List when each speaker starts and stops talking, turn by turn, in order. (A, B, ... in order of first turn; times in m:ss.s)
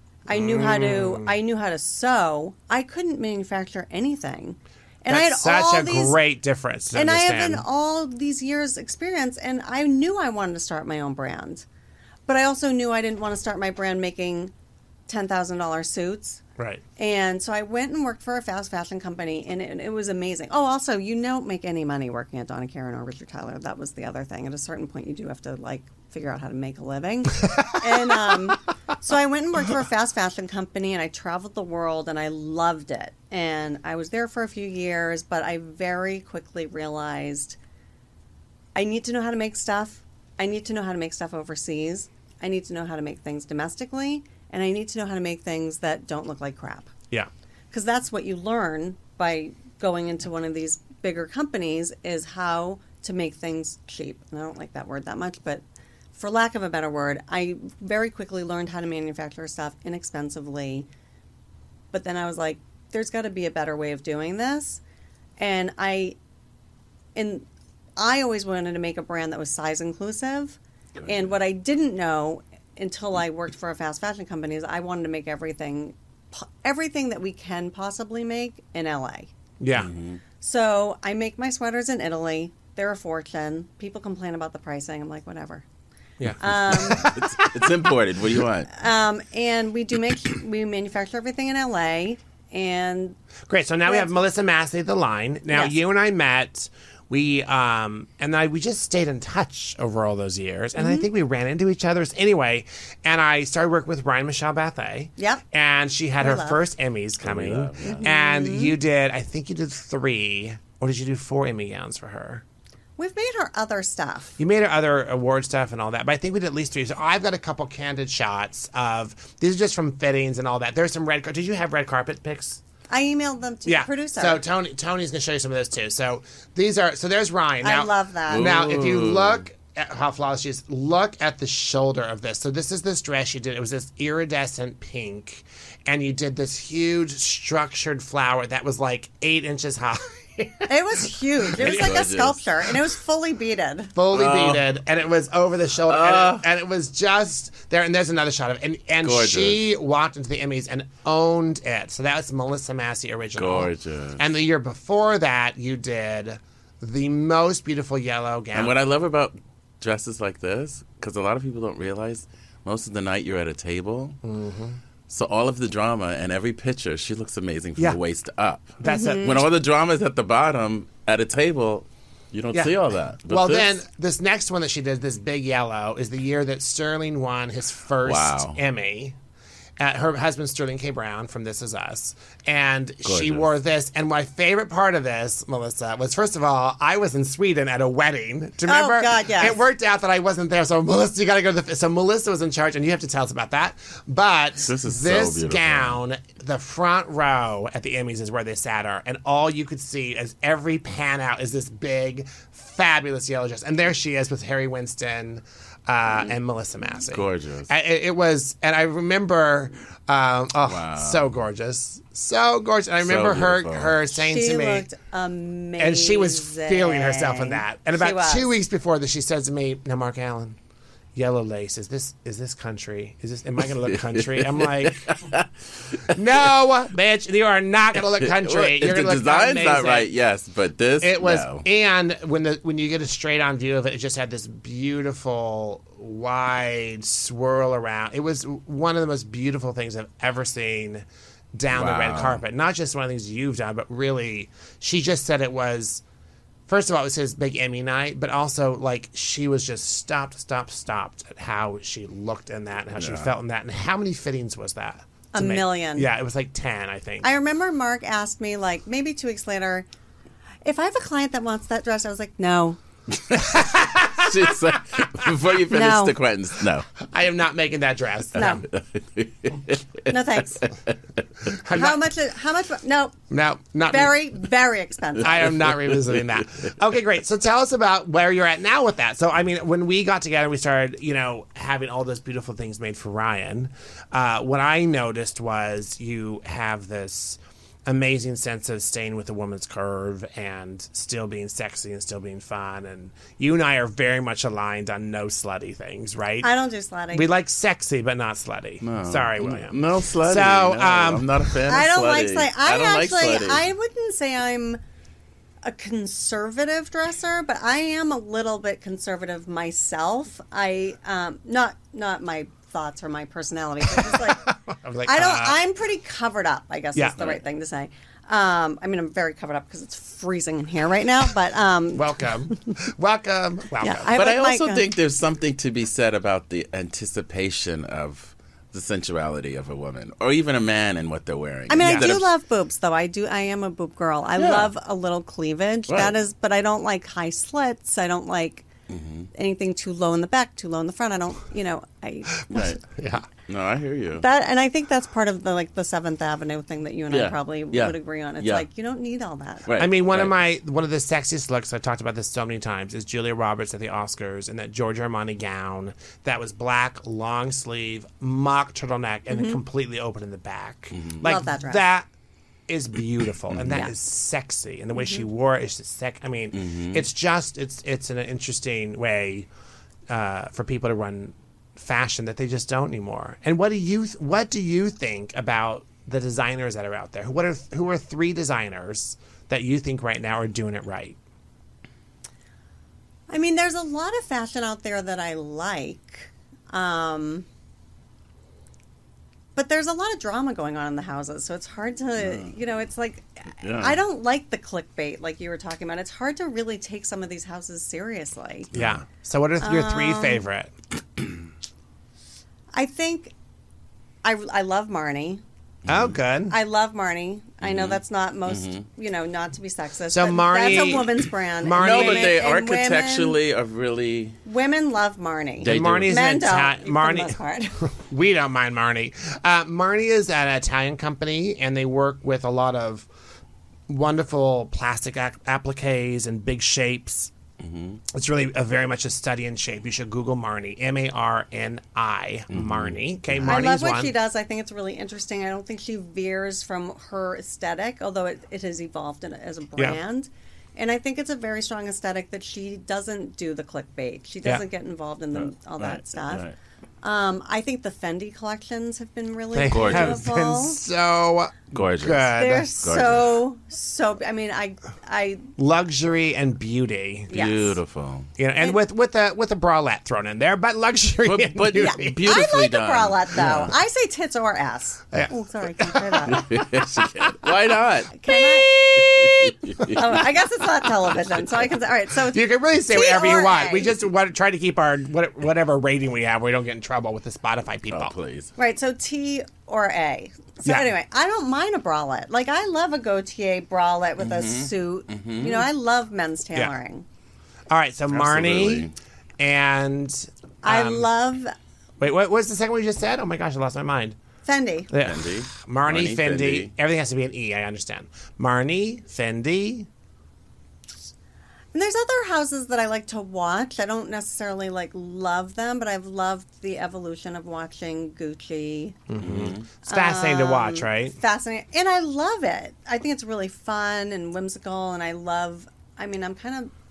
0:00.3-0:06.2 A
0:00.3-0:01.3 B
0:05.1-0:07.6 B
0:06.9-0:11.6 A
0:12.3-0:14.5 A
0:15.1-0:16.4 A
0:17.0-0:37.6 A
0:38.7-0:46.9 A
0:47.7-0:55.6 A
0:56.1-1:00.9 A
1:01.9-1:04.8 A
1:05.4-1:06.2 A
1:07.1-1:07.4 A
1:08.0-1:19.3 A
1:11.0-1:11.4 C
1:19.6-1:19.9 B
1:19.7-1:20.2 C
1:20.4-1:25.6 A
1:26.2-1:27.7 B
1:26.4-1:27.1 A
1:26.9-1:28.7 C
1:28.7-1:33.2 A
1:33.5-1:52.4 B
1:40.8-1:41.1 A
1:45.2-1:45.4 A
1:46.2-1:46.6 A
1:47.2-1:48.1 C
1:47.8-1:48.8 A
1:53.0-1:54.4 A
1:54.4-2:02.6 B
2:02.9-2:04.4 A
2:03.6-2:22.0 B
2:07.6-2:08.5 A
2:08.3-2:09.4 C
2:20.7-2:23.9 A
2:21.6-2:22.4 C
2:23.9-2:38.8 B
2:24.1-2:24.6 C
2:25.9-2:26.4 C
2:29.0-2:29.6 C
2:33.4-2:34.2 C
2:38.5-2:44.2 C
2:44.2-2:44.8 B
2:45.1-2:53.8 C
2:48.8-2:49.4 B
2:48.8-2:49.4 A
2:52.5-2:59.2 B
2:58.0-2:58.6 C
2:59.8-3:34.9 B
3:03.0-3:03.5 C
3:08.6-3:09.6 A
3:14.6-3:16.0 C
3:27.1-3:27.7 C
3:30.6-3:31.4 C
3:33.0-3:34.0 C
3:34.2-3:38.5 A
3:35.8-3:40.6 B
3:41.1-3:45.1 B
3:43.8-3:46.2 C
3:46.1-3:50.1 B
3:48.0-3:51.6 C
3:51.0-4:06.0 B
4:01.7-4:02.4 C
4:06.7-4:17.3 B
4:12.9-4:13.3 C
4:15.3-4:16.1 A
4:17.2-4:19.9 A
4:20.6-4:22.8 A
4:23.3-4:26.9 C
4:23.3-4:24.6 B
4:25.7-4:26.2 A
4:27.1-4:28.6 B
4:28.4-4:31.5 C
4:28.4-4:28.6 A
4:30.1-4:30.7 A
4:31.4-4:32.0 B
4:31.7-4:33.2 A
4:33.3-4:34.1 B
4:33.9-4:35.5 A
4:35.2-4:56.5 B
4:35.4-4:36.7 C
4:56.4-4:57.3 A
4:57.1-5:01.5 B
4:58.8-5:03.7 C
5:01.7-5:04.8 A
5:05.6-5:14.5 A
5:13.9-5:15.6 B
5:15.0-5:22.8 A
5:17.0-5:17.2 B
5:21.9-5:24.1 B
5:23.8-5:24.9 A
5:24.1-5:32.3 C
5:31.7-5:38.7 A
5:31.8-5:32.2 B
5:34.4-5:34.7 C
5:35.9-5:36.2 C
5:38.9-5:39.3 C
5:39.3-5:42.6 A
5:42.5-5:42.8 C
5:42.9-5:43.2 B
5:43.4-5:44.2 C
5:44.2-5:49.7 A
5:47.1-5:48.6 C
5:49.6-5:50.4 C
5:49.8-6:02.0 B
5:59.3-5:59.6 A
6:00.9-6:01.2 C
6:01.2-6:01.8 A
6:02.7-6:09.5 B
6:03.5-6:03.9 C
6:05.0-6:05.2 A
6:06.5-6:07.0 C
6:10.1-6:21.2 B
6:23.3-6:27.4 A
6:29.5-6:38.7 A
6:32.2-6:32.5 C
6:33.6-6:34.0 C
6:38.7-6:39.0 C
6:38.7-6:40.7 B
6:39.6-6:40.4 A
6:42.7-6:43.3 A
6:44.2-6:45.4 A
6:45.9-6:46.2 C
6:45.9-6:46.6 B
6:46.5-6:53.4 A
6:47.6-6:48.8 C
6:50.1-6:52.4 B
6:51.8-6:54.4 C
6:54.4-6:57.8 A
6:55.6-6:56.2 C
6:55.6-6:57.4 B
6:57.9-7:03.1 B
7:03.9-7:07.3 B
7:07.6-7:08.0 C
7:08.1-7:14.1 B
7:12.5-7:13.6 C
7:13.4-7:26.5 A
7:25.3-7:26.6 C
7:27.0-7:30.8 A
7:29.5-7:32.7 B
7:29.7-7:30.2 C
7:31.7-7:33.4 C
7:32.3-7:35.5 A
7:35.6-7:37.4 B
7:37.3-7:37.8 A
7:37.3-7:38.3 C
7:38.4-7:42.2 B
7:41.2-7:43.7 C
7:41.8-7:46.5 A
7:45.1-7:47.3 B
7:46.2-7:50.2 C
7:48.2-7:53.9 A
7:51.1-7:51.4 C
7:52.3-7:58.1 B
7:57.9-7:58.5 C
7:58.6-8:07.0 A
8:04.2-8:05.7 C
8:07.7-8:11.1 B
8:08.1-8:08.9 C
8:10.6-8:11.5 A
8:12.0-8:14.2 B
8:14.4-8:14.9 A
8:14.9-8:19.9 B
8:15.0-8:16.7 C
8:21.7-8:29.0 A
8:29.1-8:31.1 B
8:29.2-8:29.6 C
8:29.9-8:36.7 A